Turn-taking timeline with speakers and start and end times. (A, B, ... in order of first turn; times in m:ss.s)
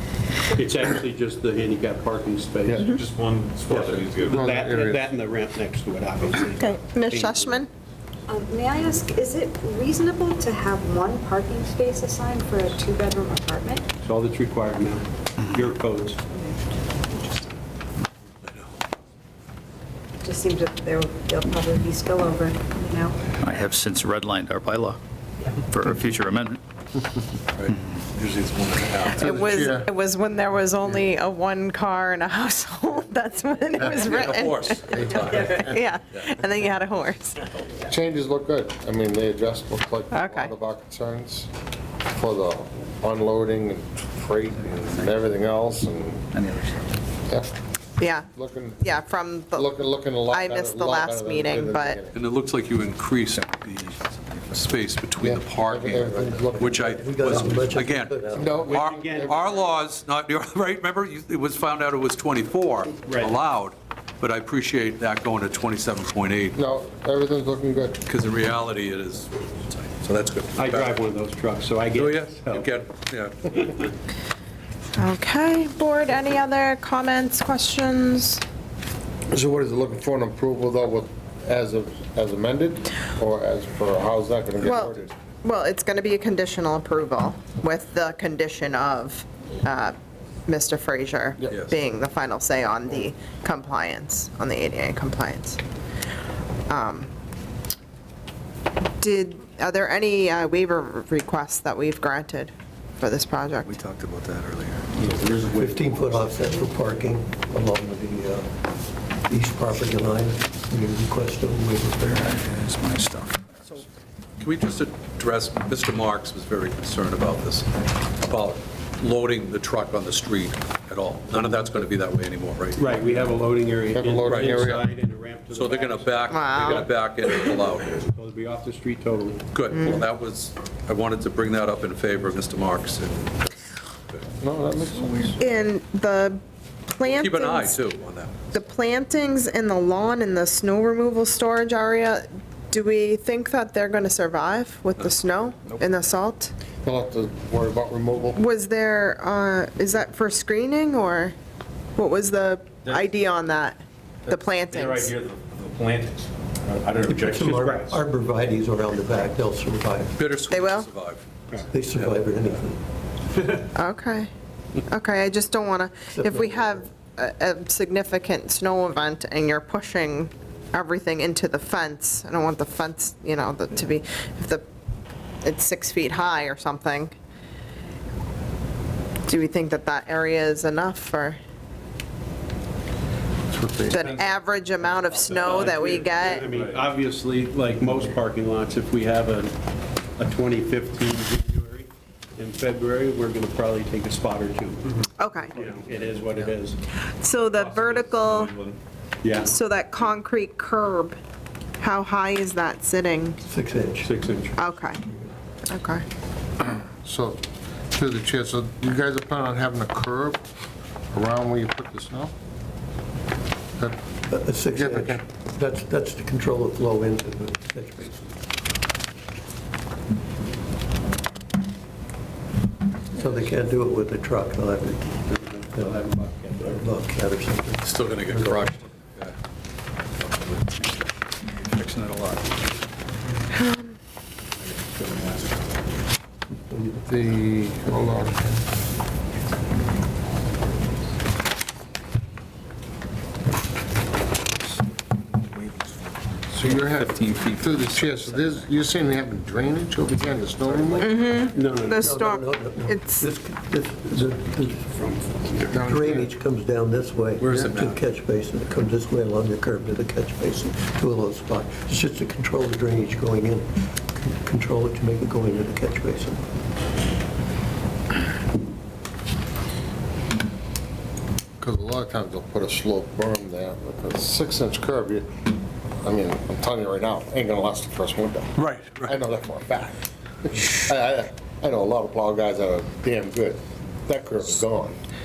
0:00.5-0:02.9 A
0:02.6-0:03.0 B
0:02.8-0:04.4 C
0:03.6-0:07.7 A
0:04.2-0:05.1 B
0:06.6-0:07.7 D
0:08.3-0:13.8 E
0:14.0-0:16.2 A
0:16.3-0:17.5 E
0:20.2-0:23.2 E
0:23.4-0:25.0 F
0:25.6-0:26.6 F
0:27.5-0:29.7 G
0:29.1-0:37.4 D
0:29.1-0:29.9 B
0:33.8-0:34.2 B
0:34.0-0:35.7 G
0:34.9-0:36.0 B
0:37.8-0:41.5 B
0:40.1-0:40.5 D
0:42.1-0:46.2 B
0:44.5-0:45.2 F
0:46.3-0:47.0 F
0:48.0-0:48.3 D
0:48.3-0:49.0 B
0:48.8-0:49.7 D
0:49.5-0:52.2 B
0:50.3-0:52.0 D
0:52.1-1:06.6 G
0:53.4-0:54.5 F
0:55.2-0:56.7 B
0:56.0-0:58.7 H
0:58.3-0:59.5 B
0:58.6-0:59.4 A
1:03.0-1:03.3 A
1:06.6-1:08.0 B
1:08.0-1:11.0 G
1:10.5-1:12.7 A
1:11.9-1:13.9 G
1:15.0-1:18.4 D
1:19.3-1:25.1 B
1:24.6-1:29.9 D
1:30.5-1:35.6 D
1:31.5-1:31.8 G
1:36.7-1:37.1 D
1:39.0-1:43.8 D
1:44.9-1:46.5 C
1:45.5-1:48.5 H
1:49.3-1:52.3 H
1:52.1-1:53.8 F
1:54.4-2:02.9 G
2:02.7-2:06.9 A
2:03.9-2:04.8 B
2:04.3-2:04.7 G
2:05.5-2:08.0 G
2:06.3-2:06.9 D
2:07.8-2:10.0 A
2:09.5-2:14.2 G
2:09.8-2:10.0 D
2:14.4-2:15.5 B
2:15.4-2:17.8 D
2:17.0-2:18.5 G
2:18.5-2:26.5 D
2:25.0-2:25.7 G
2:26.8-2:28.4 B
2:28.3-2:31.3 D
2:32.0-2:35.1 D
2:34.3-2:38.0 C
2:37.0-2:40.3 H
2:37.4-2:37.9 A
2:40.2-2:41.2 G
2:40.5-2:40.9 D
2:41.7-2:42.8 H
2:43.7-2:44.3 D
2:44.8-2:54.6 D
2:46.1-2:46.8 H
2:55.4-2:57.1 D
2:59.3-3:01.4 D
3:03.5-3:04.0 B
3:03.9-3:06.4 D
3:05.2-3:06.9 C
3:05.3-3:09.5 A
3:10.2-3:16.8 A
3:15.2-3:15.5 D
3:17.0-3:18.5 D
3:17.5-3:18.8 C
3:19.2-3:19.5 A
3:19.4-3:21.2 D
3:21.8-3:23.4 D
3:23.5-3:24.2 H
3:24.0-3:24.6 A
3:24.5-3:25.0 D
3:24.7-3:25.1 H
3:25.7-3:26.0 D
3:27.0-3:27.4 B
3:27.9-3:30.4 B
3:31.1-3:32.3 B
3:34.3-3:38.3 H
3:34.7-3:35.2 B
3:43.1-3:48.7 H
3:45.3-3:46.8 A
3:47.8-3:49.3 G
3:51.5-3:52.5 F
3:53.6-3:53.9 D
3:56.7-3:57.0 H
3:57.0-3:58.6 B
4:06.5-4:11.4 B
4:06.6-4:08.7 F
4:10.8-4:15.0 H
4:11.0-4:13.3 D
4:11.5-4:12.1 A
4:14.1-4:15.8 A
4:15.7-4:16.3 B
4:15.8-4:26.4 H
4:17.4-4:18.0 G
4:31.6-4:35.3 B
4:36.0-4:45.0 B
4:38.8-4:39.0 G